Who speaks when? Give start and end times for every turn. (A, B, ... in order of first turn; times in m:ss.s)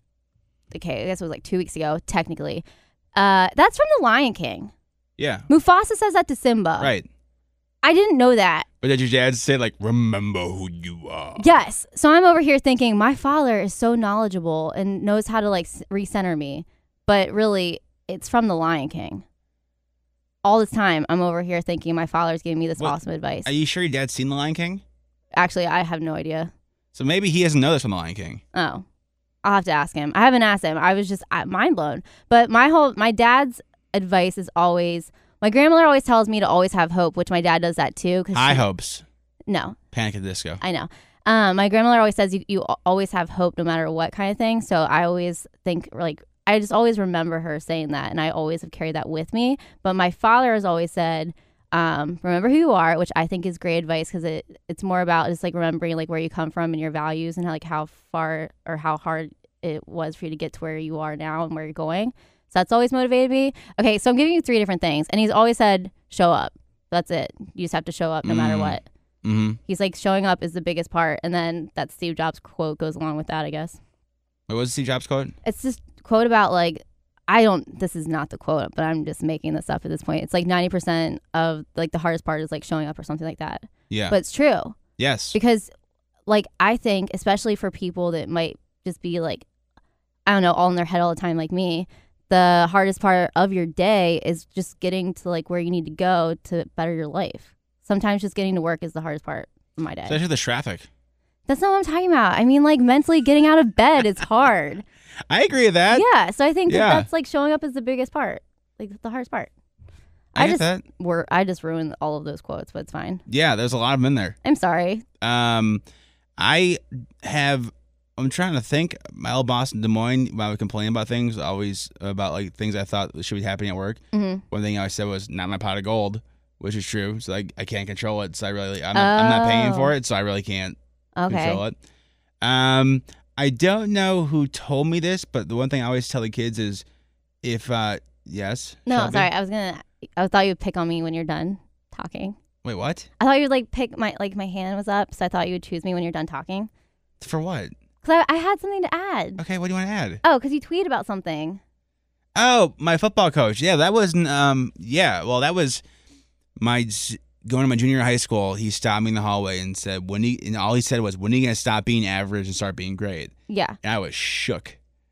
0:00.7-0:02.6 A
0:03.2-0:04.7 A
0:05.2-0:05.5 B
0:05.5-0:06.9 A
0:06.8-0:07.1 B
0:07.8-0:08.7 A
0:08.8-0:11.5 B
0:11.4-0:19.2 A
0:20.4-0:23.5 A
0:22.8-0:24.8 B
0:25.4-0:26.5 A
0:26.9-0:28.4 B
0:28.5-0:28.8 A
0:29.4-0:38.6 A
0:38.3-0:39.0 B
0:39.5-0:39.8 A
0:39.9-0:40.6 B
0:40.6-1:08.8 A
1:08.2-1:09.6 B
1:09.7-1:13.8 A
1:14.5-1:15.4 B
1:15.4-1:24.8 A
1:23.9-1:24.2 B
1:25.0-1:25.4 B
1:25.3-1:25.7 A
1:26.3-1:29.5 A
1:30.3-1:40.2 A
1:40.1-1:40.9 B
1:41.5-1:44.8 A
1:45.3-1:46.1 B
1:45.9-1:49.5 A
1:46.7-1:47.1 B
1:50.3-1:53.2 A
1:50.4-1:50.8 B
1:53.3-1:54.4 B
1:54.4-1:55.0 A
1:55.2-1:55.8 B
1:56.4-2:10.8 B
2:04.1-2:04.4 A
2:09.0-2:09.9 A
2:11.2-2:11.6 A
2:11.3-2:11.7 B
2:12.4-2:16.8 B
2:17.4-2:19.3 B
2:18.9-2:22.4 A
2:22.6-2:23.1 B
2:23.2-2:26.7 A
2:27.2-2:27.7 B
2:28.0-2:29.4 A
2:29.4-2:30.2 B
2:30.2-2:31.6 A
2:32.4-2:35.8 B
2:36.6-2:44.8 B
2:43.5-2:43.8 A